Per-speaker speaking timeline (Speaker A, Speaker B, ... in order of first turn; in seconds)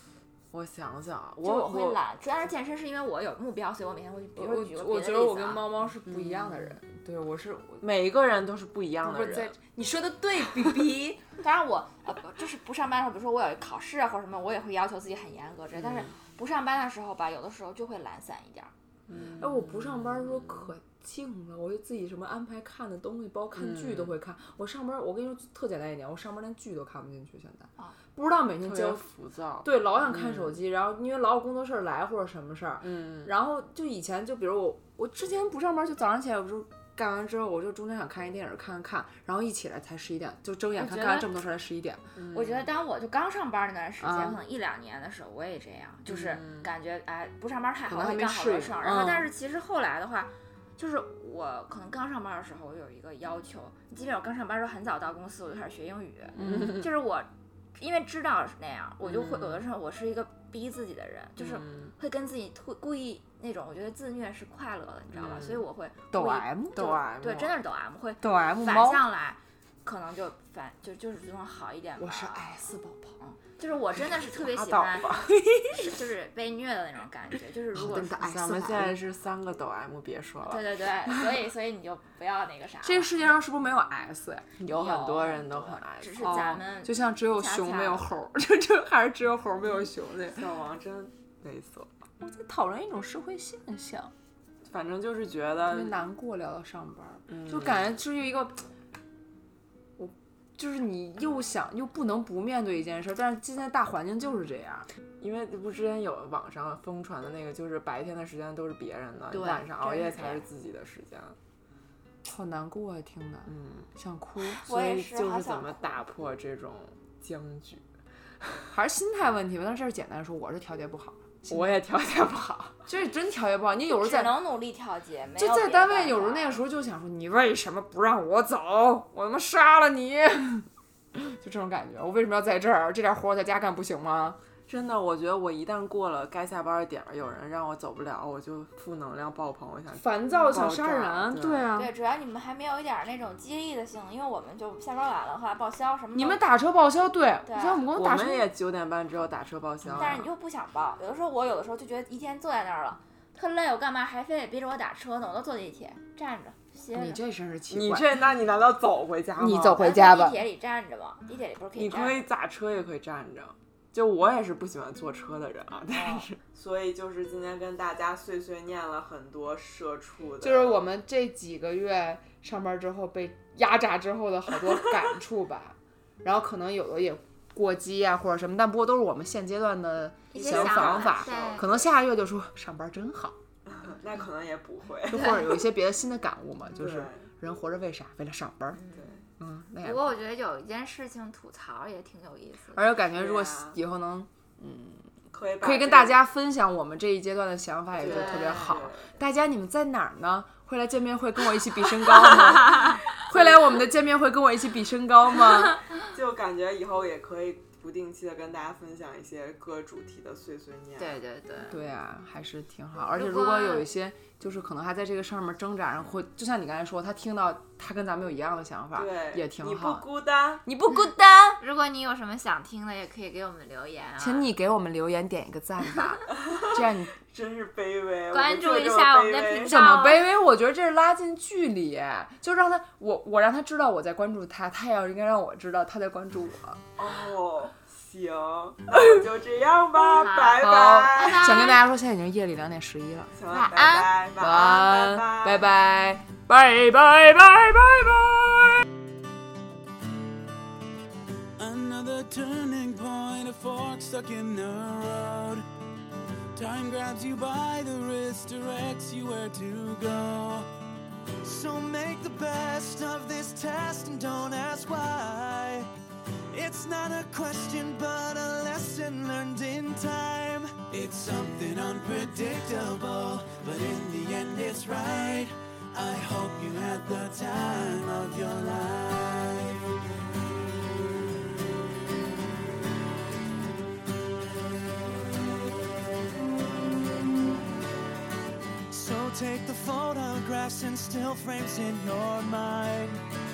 Speaker A: 0.5-2.0, 6.0-6.8, 7.8-9.5, 15.7-16.2, 19.1-20.7, 23.5-24.1, 28.6-30.6, 32.8-33.3, 42.1-42.7, 46.0-46.7, 56.4-56.9, 59.0-59.6, 61.4-61.9, 65.1-65.7, 66.7-67.6, 74.0-75.3, 78.1-81.2, 84.6-86.6, 90.3-91.9, 94.7-96.0, 97.3-97.9, 105.2-111.4, 113.5-113.9, 114.6-117.8, 118.4-118.7, 121.5-122.8, 134.7-141.7, 147.9-150.3, 157.7-159.9, 161.8-170.8, 180.4-181.9, 183.8-185.4, 186.7-187.3, 188.9-189.2, 193.0-193.8, 195.3-196.2, 197.9-199.2, 203.1-203.8, 205.9-211.2, 218.9-220.6, 226.3-229.8, 237.0-241.7, 243.3-245.7
Speaker B: 1.4-5.7, 11.4-18.7, 40.8-41.3, 42.3-72.6, 73.2-75.1, 75.7-78.2, 80.4-83.2, 84.7-88.1, 109.3-110.5, 114.5-116.0, 123.9-126.6, 141.8-146.4, 147.4-147.8, 149.9-157.2, 159.8-162.2, 180.3-181.8, 188.7-189.2, 189.8-192.9, 198.0-198.9, 202.6-203.0, 211.0-211.8, 213.1-213.9, 221.6-224.5, 228.3-230.2, 240.1-241.8, 243.5-244.8
Speaker C: 4.3-7.8, 9.0-11.2, 19.4-29.0, 29.6-42.0, 44.0-44.4, 47.9-49.3, 56.5-56.8, 66.1-67.0, 68.2-69.0, 72.0-73.2, 75.2-75.7, 77.7-79.0, 82.8-84.6, 86.2-90.5, 92.2-94.1, 95.7-98.7, 100.0-104.9, 112.2-114.6, 118.7-121.8, 122.8-124.3, 125.4-134.4, 140.0-141.9, 146.1-148.5, 156.9-158.1, 159.4-160.4, 166.0-166.2, 170.4-183.4, 185.1-188.8, 189.4-190.1, 192.7-195.1, 195.6-205.8, 211.7-220.1, 220.6-221.6, 224.2-227.1, 229.6-236.8, 240.6-243.3, 244.4-248.8
Speaker D: 251.6-255.7, 256.5-260.7, 261.4-265.9, 266.5-279.9, 288.9-293.2